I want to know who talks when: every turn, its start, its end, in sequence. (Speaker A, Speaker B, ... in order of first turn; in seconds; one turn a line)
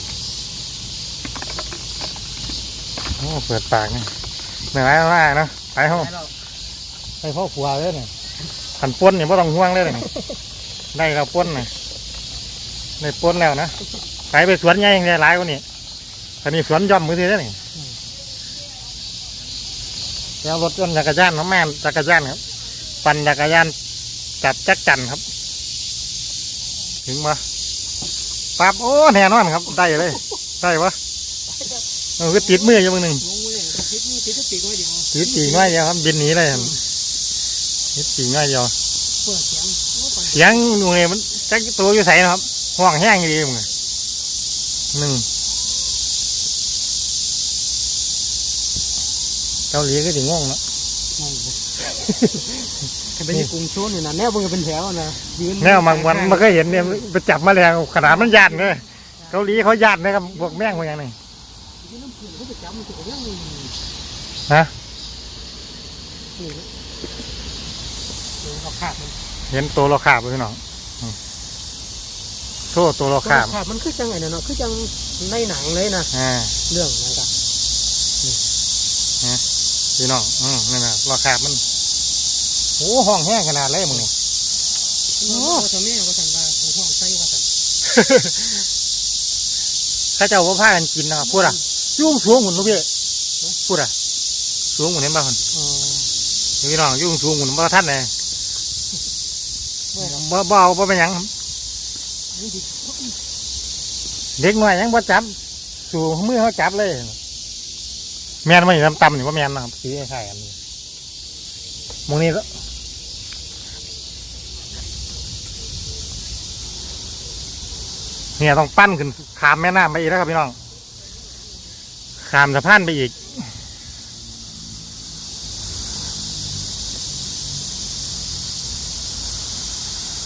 Speaker A: 3.2-4.1
Speaker A: 4.7-6.1
Speaker B: 6.0-6.3
Speaker A: 7.2-8.1
Speaker A: 8.8-10.1
Speaker A: 10.9-11.7
Speaker A: 13.0-13.7
Speaker A: 14.3-15.6
Speaker A: 16.4-17.6
Speaker A: 20.4-22.4
Speaker A: 23.0-23.8
Speaker A: 24.4-25.2
Speaker A: 27.1-27.4
Speaker A: 28.6-31.0
Speaker A: 32.2-33.2
Speaker B: 32.2-35.8
Speaker A: 35.1-36.8
Speaker B: 36.4-36.8
Speaker A: 38.0-38.7
Speaker B: 39.2-40.8
Speaker A: 40.3-43.7
Speaker A: 44.9-45.3
Speaker A: 49.7-50.6
Speaker B: 51.2-51.7
Speaker B: 52.3-57.1
Speaker A: 55.6-61.2
Speaker B: 58.0-60.8
Speaker B: 61.8-63.8
Speaker B: 66.4-66.7
Speaker B: 68.4-69.2
Speaker A: 69.5-71.2
Speaker A: 72.7-73.5
Speaker B: 73.2-76.1
Speaker A: 76.1-76.6
Speaker B: 76.7-77.3
Speaker A: 80.0-81.6
Speaker A: 82.8-84.1
Speaker B: 85.2-87.5
Speaker A: 85.3-85.7
Speaker A: 87.8-88.5
Speaker A: 90.2-92.9
Speaker B: 91.3-91.6
Speaker A: 93.6-93.9
Speaker A: 94.7-95.4
Speaker B: 95.5-96.1
Speaker A: 96.6-98.1
Speaker B: 99.9-100.2
Speaker A: 100.0-101.3
Speaker B: 102.3-103.2
Speaker A: 104.4-105.4
Speaker A: 105.9-107.2
Speaker A: 108.4-110.6
Speaker A: 112.1-112.5
Speaker A: 118.4-120.6
Speaker A: 122.2-123.5